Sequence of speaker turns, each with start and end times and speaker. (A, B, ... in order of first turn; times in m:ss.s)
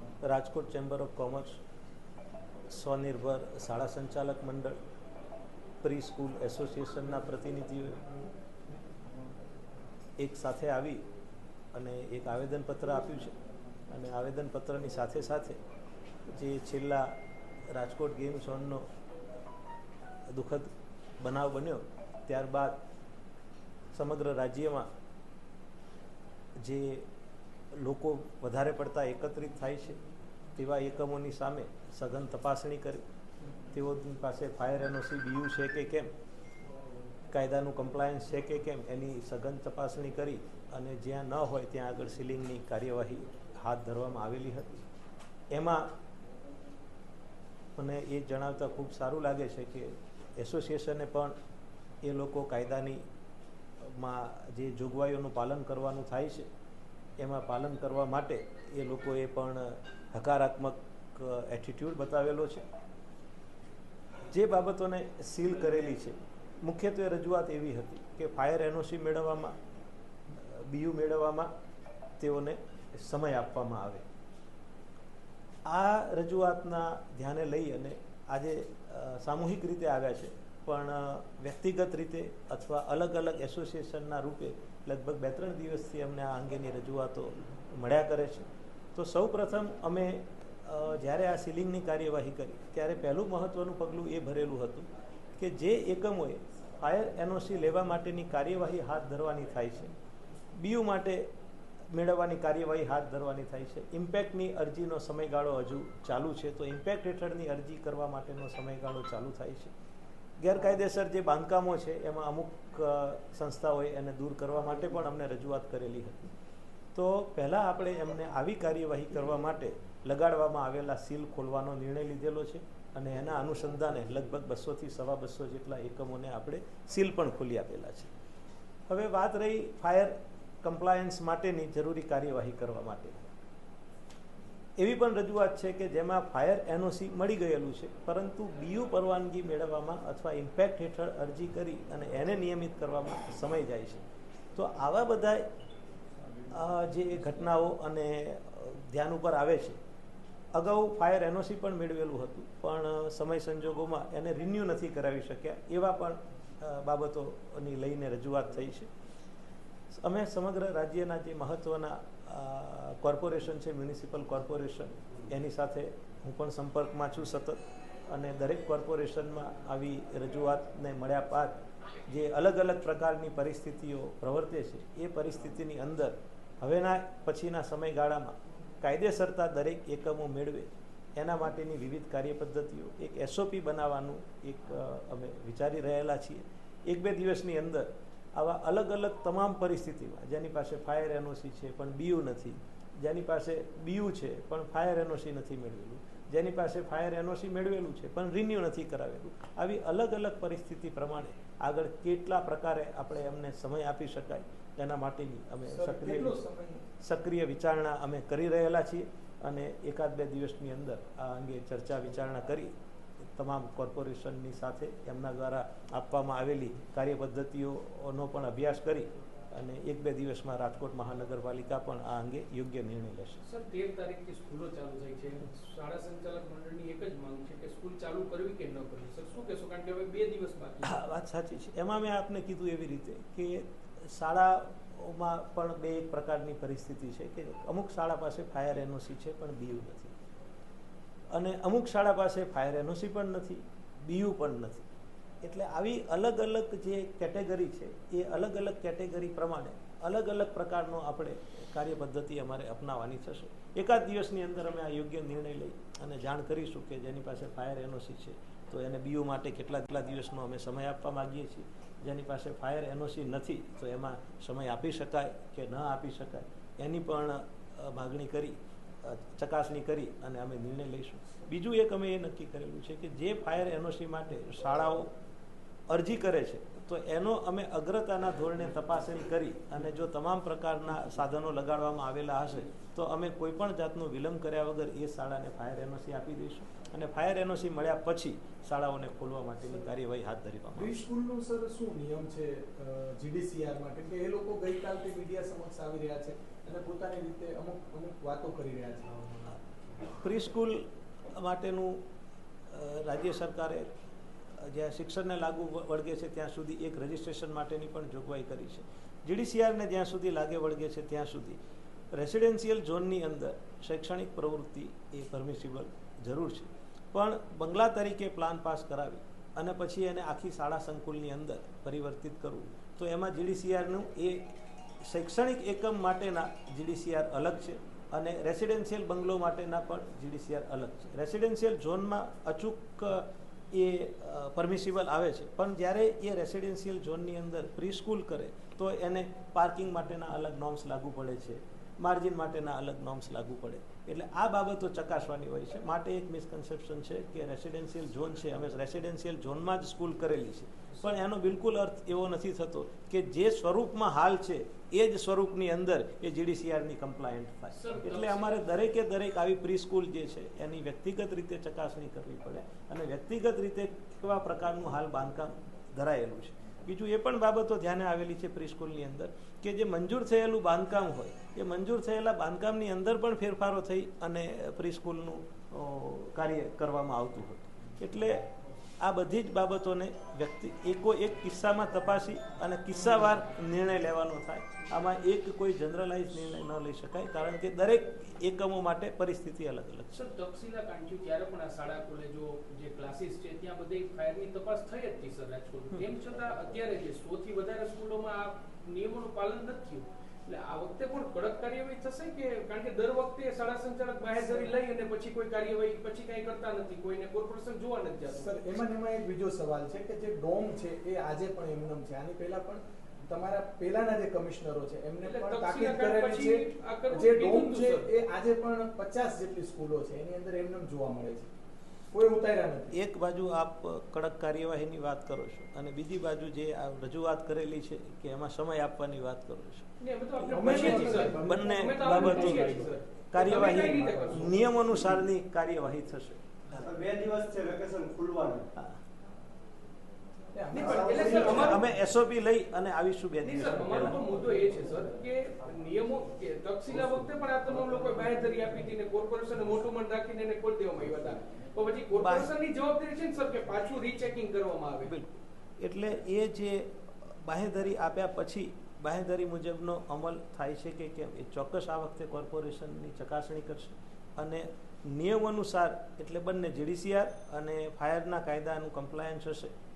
0:00.2-0:01.6 A
0:02.7-0:04.8 A
0:05.8-0:08.0 A
0:10.2-0:11.0 A
0:11.7-0:13.3 A
0:13.9-0:15.6 A
0:16.3-0:17.1 A
0:17.7-0:18.8 A
0:20.3-0:22.8 A
0:23.9-0:24.9 A
0:26.6-0:27.1 A
0:27.7-0:30.0 A
0:30.6-0:33.0 A
0:33.7-0:36.1 A
0:37.3-0:44.8 A
0:45.5-0:45.8 A
0:47.8-0:51.3 A
0:52.0-0:53.0 A
0:53.8-0:56.5 A
0:57.2-1:02.6 A
1:04.3-1:09.6 A
1:10.3-1:11.5 A
1:12.2-1:14.0 A
1:15.7-1:39.9 A
1:40.6-1:41.3 A
1:41.9-1:49.7 A
1:50.4-1:56.3 A
1:57.0-2:08.1 A
2:08.9-2:13.3 A
2:14.8-2:24.0 A
2:24.6-2:25.4 A
2:26.5-2:29.8 A
2:30.5-2:38.9 A
2:39.9-2:51.6 A
2:52.1-3:26.4 A
3:25.7-3:26.8 B
3:27.0-3:32.7 A
3:33.4-3:43.4 A
3:43.4-3:51.0 C
3:50.8-4:00.2 A
4:01.3-4:04.9 A
4:05.4-4:35.1 A
4:35.9-4:51.0 A
4:50.8-4:59.2 B
5:00.1-5:02.0 A
5:02.7-5:03.9 A
5:04.6-5:11.6 A
5:12.1-5:24.5 A
5:25.0-6:18.5 A
5:57.7-5:58.7 C
6:19.0-6:30.2 A
6:30.1-6:48.6 C
6:48.3-7:01.5 B
6:55.2-6:58.1 C
7:02.1-7:02.9 B
7:02.9-7:09.9 A
7:10.0-7:14.5 C
7:10.4-7:16.4 A
7:10.5-7:14.5 B
7:16.8-7:18.7 D
7:20.5-7:21.5 B
7:20.7-7:21.8 C
7:20.8-7:21.8 D
7:21.1-7:24.2 A
7:23.4-7:35.1 C
7:32.2-7:32.5 A
7:35.0-7:49.7 A